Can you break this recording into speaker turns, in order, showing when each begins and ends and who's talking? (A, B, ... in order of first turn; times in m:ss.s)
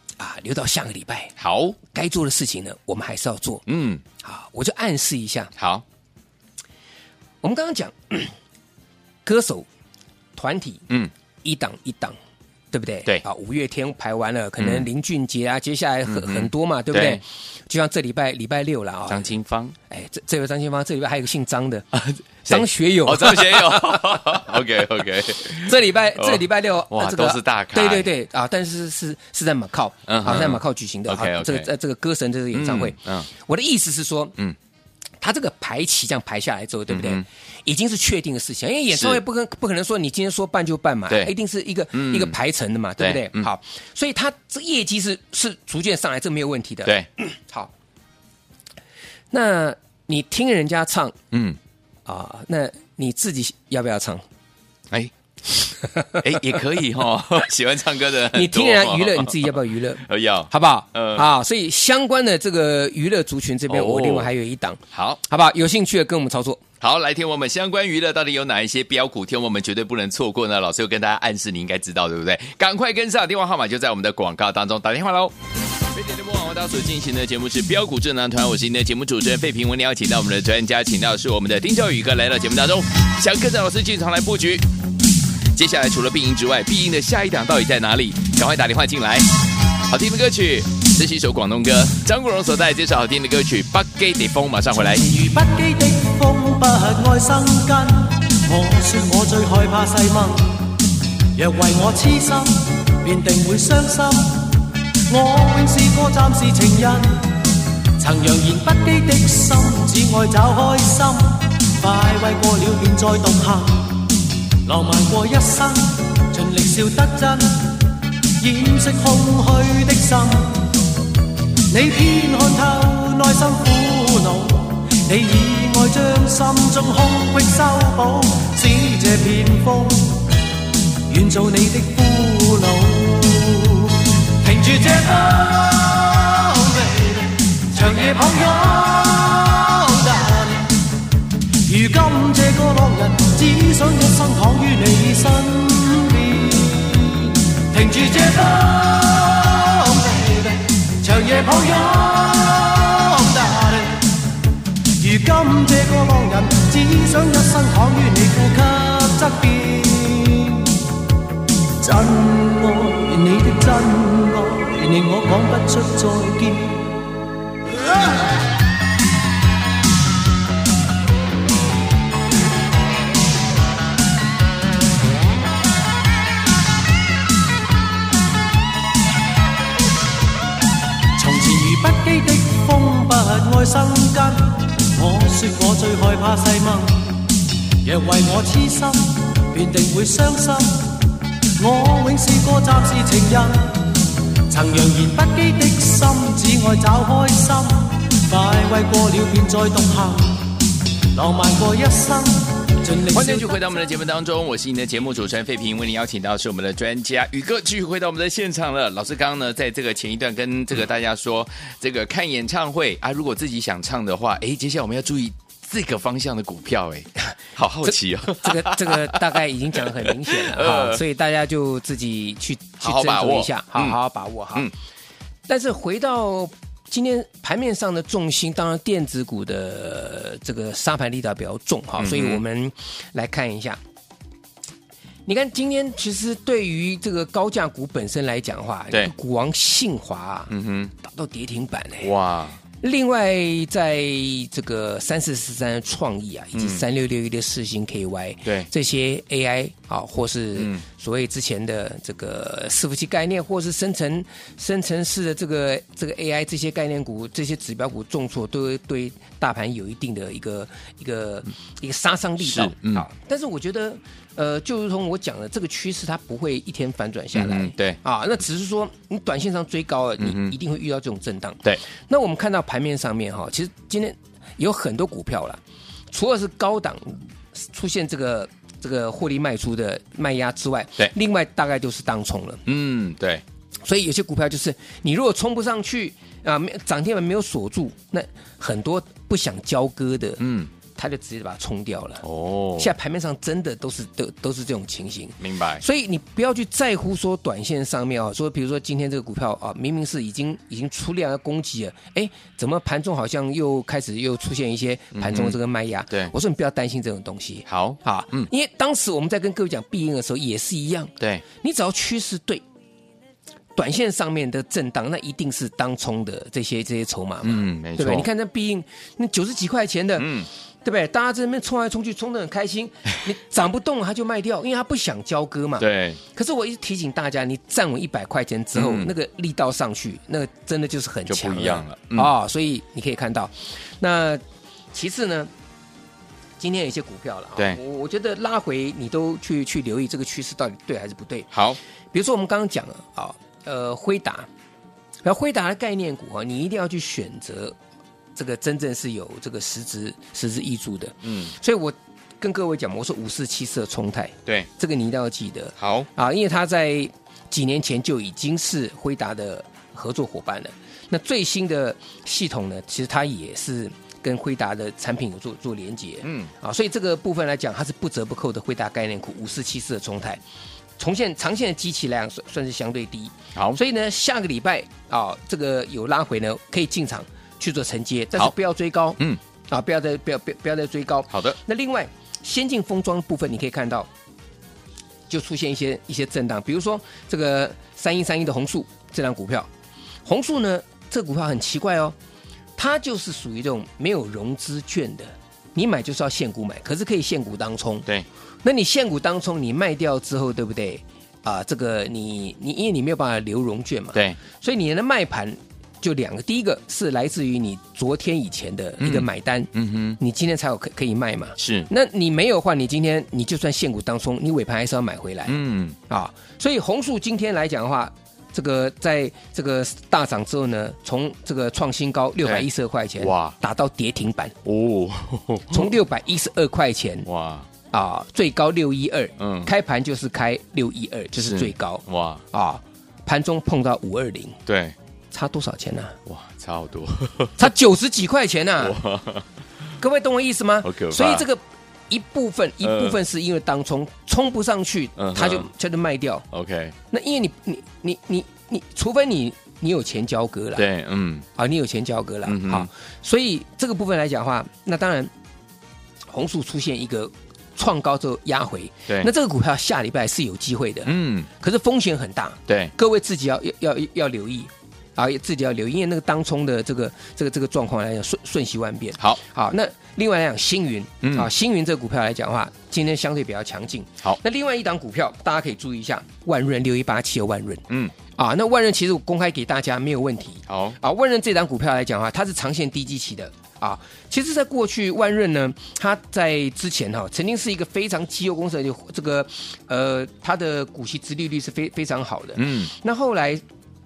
0:00.2-0:03.6 A
0:01.4-0:01.8 B
0:03.7-0:04.0 B
0:04.2-0:05.5 A
0:05.6-0:05.8 B
0:07.4-0:08.3 A
0:09.2-0:09.7 A
0:10.4-0:10.8 A
0:11.4-0:12.2 A
0:12.7-0:19.3 A
0:14.6-0:14.9 B
0:16.1-0:17.2 B
0:19.1-0:19.8 B
0:19.9-0:21.9 A
0:21.9-0:28.1 B
0:22.5-0:24.3 A
0:25.5-0:34.4 A
0:30.1-0:31.7 B
0:32.5-0:33.3 B
0:35.2-0:47.7 A
0:36.9-0:37.2 B
0:38.9-0:39.2 B
0:41.9-0:42.4 B
0:43.0-0:43.5 B
0:49.3-0:51.2 A
0:51.3-0:51.6 B
0:52.1-0:54.2 A
0:54.9-1:01.3 B
0:58.3-1:06.6 A
1:03.7-1:04.3 B
1:04.9-1:05.2 B
1:06.8-1:15.3 B
1:15.9-1:24.6 B
1:25.5-1:29.3 B
1:29.9-1:35.0 B
1:34.8-1:40.6 C
1:41.4-1:47.3 C
1:48.0-1:54.1 C
1:54.6-2:00.7 C
2:01.7-2:10.3 C
2:11.1-2:20.8 C
2:21.7-2:34.1 C
2:35.0-2:40.8 C
2:41.8-2:47.0 C
3:01.2-3:07.1 C
3:07.8-3:11.0 C
3:11.6-3:13.9 C
3:14.5-3:20.5 C
3:21.1-3:23.6 C
3:23.1-3:39.3 B
3:37.9-3:44.7 A
3:39.9-3:41.0 B
3:42.8-3:44.0 B
3:45.5-3:53.8 A
3:52.0-3:52.4 B
3:55.3-4:02.1 A
4:00.5-4:00.9 B
4:02.0-4:02.6 B
4:02.8-4:42.6 A
4:06.6-4:06.8 B
4:10.6-4:10.8 B
4:22.4-4:23.0 B
4:27.3-4:28.0 B
4:30.2-4:30.5 B
4:42.7-4:43.4 B
4:43.8-4:50.4 A
4:50.4-4:50.7 B
4:51.0-4:52.2 A
4:52.2-4:52.9 B
4:52.8-5:12.6 A
4:55.4-4:55.8 B
5:05.1-5:05.6 B
5:07.7-5:08.5 B
5:13.8-5:20.3 A
5:17.4-5:18.3 B
5:20.2-5:20.5 B
5:20.8-5:34.4 A
5:25.8-5:26.2 B
5:28.8-5:29.1 B
5:31.3-5:32.3 B
5:34.9-5:35.5 A
5:36.6-5:41.5 A
5:41.5-5:41.8 B
5:42.1-5:44.5 A
5:45.2-5:47.8 A
5:48.4-6:10.4 A
5:51.2-5:51.5 B
5:55.8-5:56.1 B
6:06.2-6:06.5 B
6:11.0-6:24.1 A
6:21.3-6:21.6 B
6:25.3-6:29.7 A
6:30.2-6:32.2 A
6:32.8-6:38.1 A
6:38.6-6:55.6 A
6:49.0-6:50.2 B
6:51.6-6:51.9 B
6:55.5-6:56.0 B
6:56.1-7:04.6 A
7:03.2-7:03.6 B
7:04.6-7:06.0 B
7:05.7-7:07.3 A
7:07.3-7:07.7 B
7:07.9-7:14.6 A
7:09.4-7:09.7 B
7:11.4-7:12.4 B
7:14.7-7:15.0 B
7:15.3-7:16.2 A
7:16.3-7:17.7 B
7:17.6-7:19.0 A
7:18.8-7:19.4 B
7:20.0-7:26.4 A
7:20.8-7:21.4 B
7:22.8-7:23.2 B
7:25.2-7:25.7 B
7:26.5-7:27.0 B
7:27.1-7:30.8 A
7:30.8-7:31.5 B
7:31.6-7:35.3 A
7:32.4-7:32.9 B
7:36.3-7:57.8 A
7:41.0-7:41.5 B
7:57.9-7:58.1 B
7:58.4-8:13.6 A
8:00.7-8:01.0 B
8:12.6-8:12.9 B